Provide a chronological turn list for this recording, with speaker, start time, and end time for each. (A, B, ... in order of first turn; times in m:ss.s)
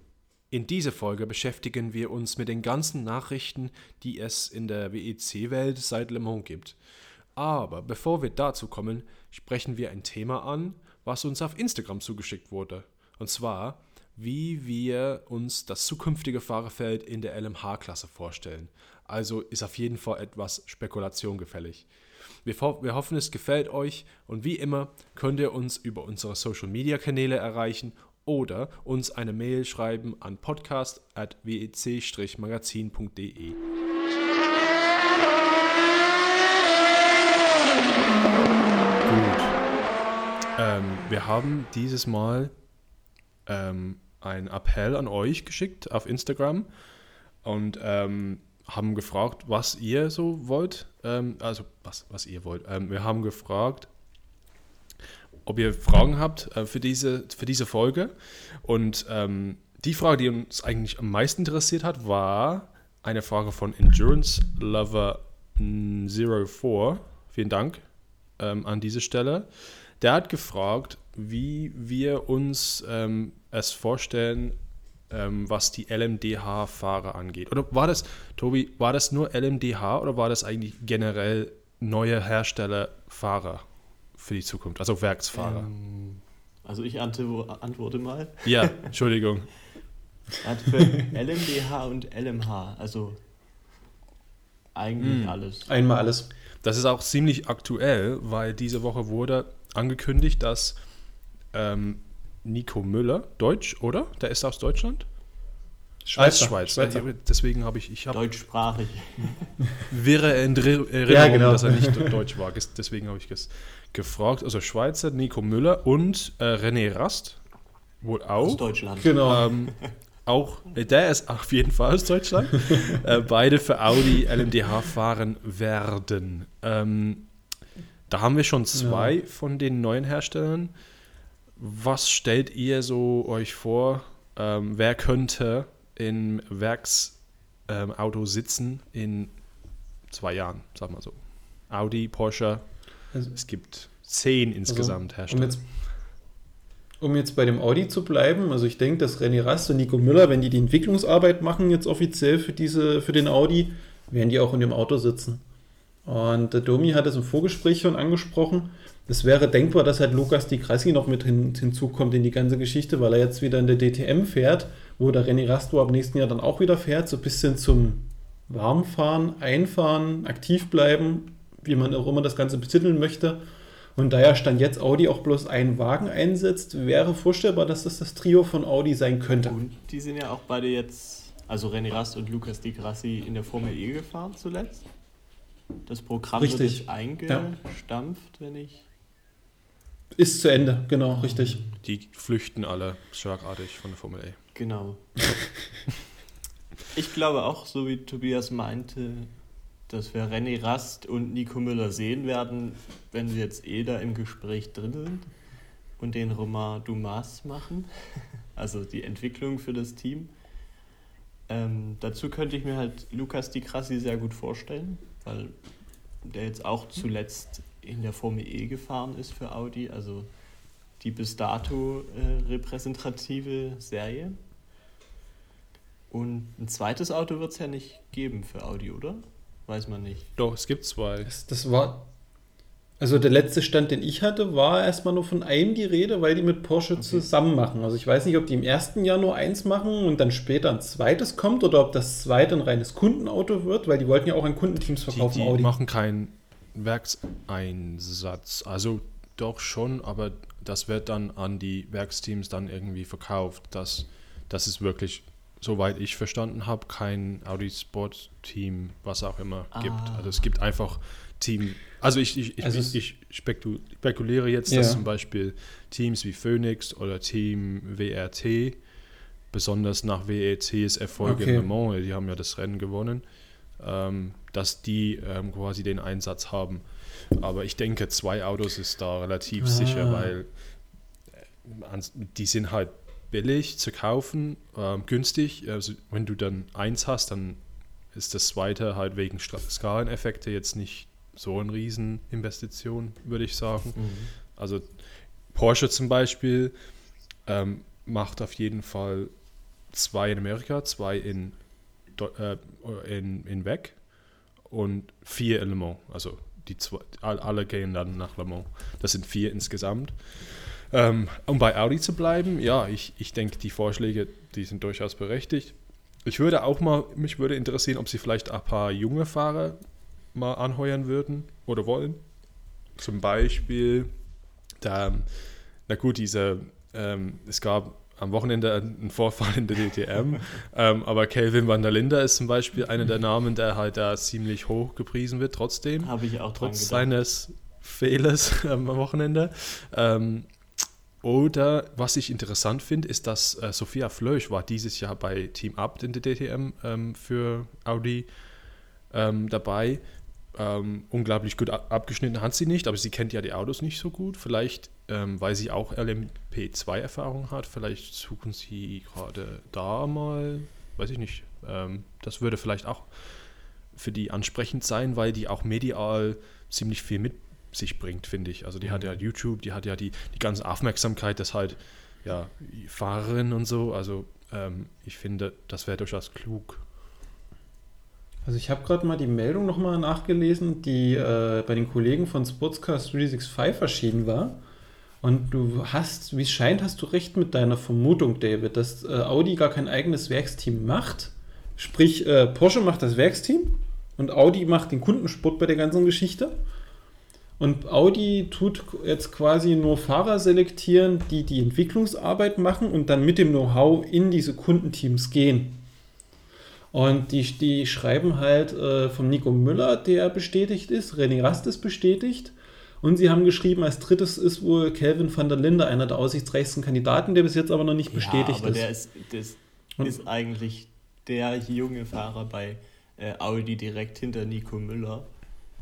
0:00.5-0:06.8 A
0:07.4-0:21.9 A
0:22.4-0:33.6 A
0:39.0-0:39.6 A
0:40.6-0:42.5 A
0:43.5-0:46.7 A
0:47.4-0:53.9 A
0:55.4-1:07.8 A
1:08.4-1:09.5 A
1:10.0-1:14.6 A
1:15.1-1:25.7 A
1:25.3-1:28.9 B
1:28.4-1:29.5 A
1:30.4-1:33.2 B
1:34.7-1:35.7 B
1:35.0-1:35.4 A
1:35.6-1:36.3 C
1:36.6-1:40.8 A
1:41.5-1:45.0 A
1:46.0-1:47.0 C
1:46.1-1:48.3 A
1:48.1-1:49.5 B
1:49.9-1:57.4 A
1:51.1-1:52.2 C
1:58.0-1:58.6 A
1:58.4-1:59.8 B
1:59.0-1:59.4 C
1:59.2-1:59.7 A
2:00.2-2:07.3 A
2:08.1-2:10.7 A
2:08.7-2:09.1 C
2:11.6-2:19.3 A
2:20.1-2:22.6 A
2:23.3-2:25.6 A
2:24.7-2:25.6 C
2:27.0-2:35.4 C
2:36.0-2:53.4 C
2:54.0-2:59.6 C
2:59.4-3:04.8 B
3:05.9-3:08.8 B
3:06.4-3:07.5 C
3:10.1-3:11.6 C
3:11.2-3:11.7 B
3:11.8-3:14.4 A
3:14.5-3:15.2 B
3:16.9-3:19.3 B
3:19.9-3:25.3 B
3:26.0-3:30.3 B
3:31.5-3:35.6 B
3:36.2-3:40.3 B
3:41.0-3:44.4 B
3:46.1-3:50.3 B
3:50.4-3:51.3 A
3:51.2-3:52.1 C
3:53.0-4:05.7 C
3:57.0-3:57.3 B
4:05.1-4:28.8 A
4:19.7-4:20.5 B
4:22.6-4:23.0 C
4:24.7-4:25.0 C
4:29.5-4:33.2 A
4:31.2-4:31.6 C
4:33.8-4:40.5 A
4:39.6-4:40.3 C
4:41.6-4:47.6 A
4:48.1-4:54.0 A
4:54.0-4:54.3 B
4:54.5-4:55.0 A
4:55.5-4:56.7 A
4:57.4-4:59.3 A
4:59.9-5:01.6 A
5:02.1-5:04.0 A
5:04.6-5:19.8 A
5:20.3-5:22.2 A
5:23.0-5:24.1 A
5:24.8-5:25.3 A
5:25.9-5:40.5 A
5:36.0-5:37.1 B
5:41.2-5:48.3 A
5:49.1-5:50.0 A
5:50.5-6:03.1 A
6:03.9-6:16.8 A
6:18.4-6:24.6 C
6:25.2-6:36.6 C
6:37.6-6:45.8 C
6:46.9-6:58.9 C
6:58.1-7:05.3 B